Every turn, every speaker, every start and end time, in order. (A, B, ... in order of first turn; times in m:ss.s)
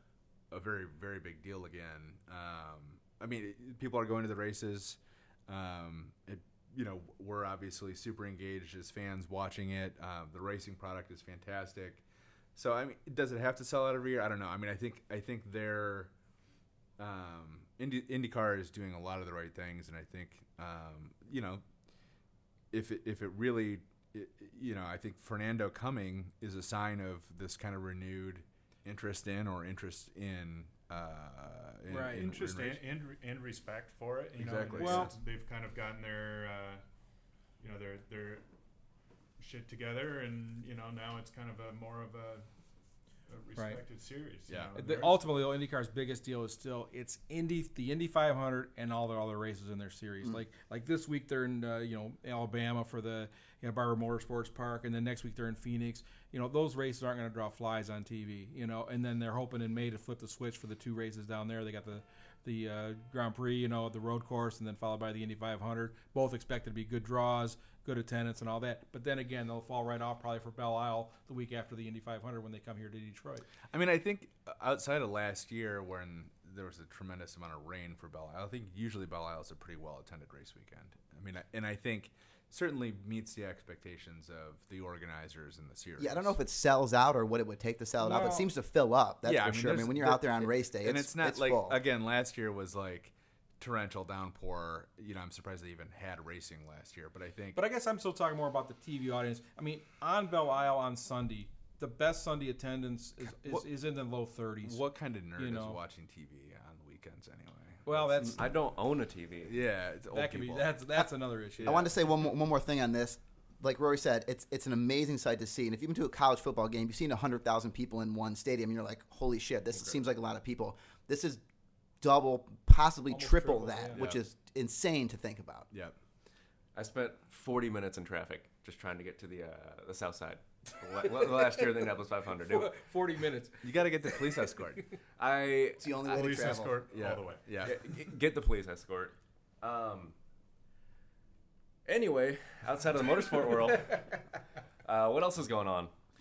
0:00.5-0:12.0 A
0:12.6-0:16.1 A
0:17.0-0:21.6 A
0:22.7-0:32.8 A
0:31.9-0:32.3 B
0:32.1-0:36.8 C
0:34.4-0:35.1 A
0:34.8-0:35.1 B
0:37.6-0:38.5 C
0:39.4-0:42.5 C
0:43.3-0:45.3 C
0:43.6-0:43.8 B
0:44.5-0:44.8 A
0:44.8-1:13.5 B
1:13.7-1:26.4 A
1:26.0-1:31.8 D
1:28.0-1:28.5 B
1:29.2-1:37.6 A
1:37.6-1:44.8 B
1:43.2-1:43.6 A
1:44.6-1:48.2 A
1:45.4-1:45.8 B
1:47.8-1:48.5 B
1:48.2-1:49.6 E
1:49.5-1:50.8 A
1:50.1-1:51.9 B
1:51.6-1:52.0 A
1:51.6-2:01.4 D
2:02.0-2:05.7 D
2:03.1-2:04.0 B
2:04.0-2:04.2 A
2:06.8-2:12.8 E
2:11.0-2:11.7 B
2:12.5-2:14.6 B
2:13.6-2:14.8 A
2:15.2-2:16.2 E
2:15.8-2:16.8 D
2:16.1-2:17.5 C
2:16.9-2:17.8 A
2:17.6-2:20.1 E
2:21.9-2:24.1 E
2:24.8-2:25.9 E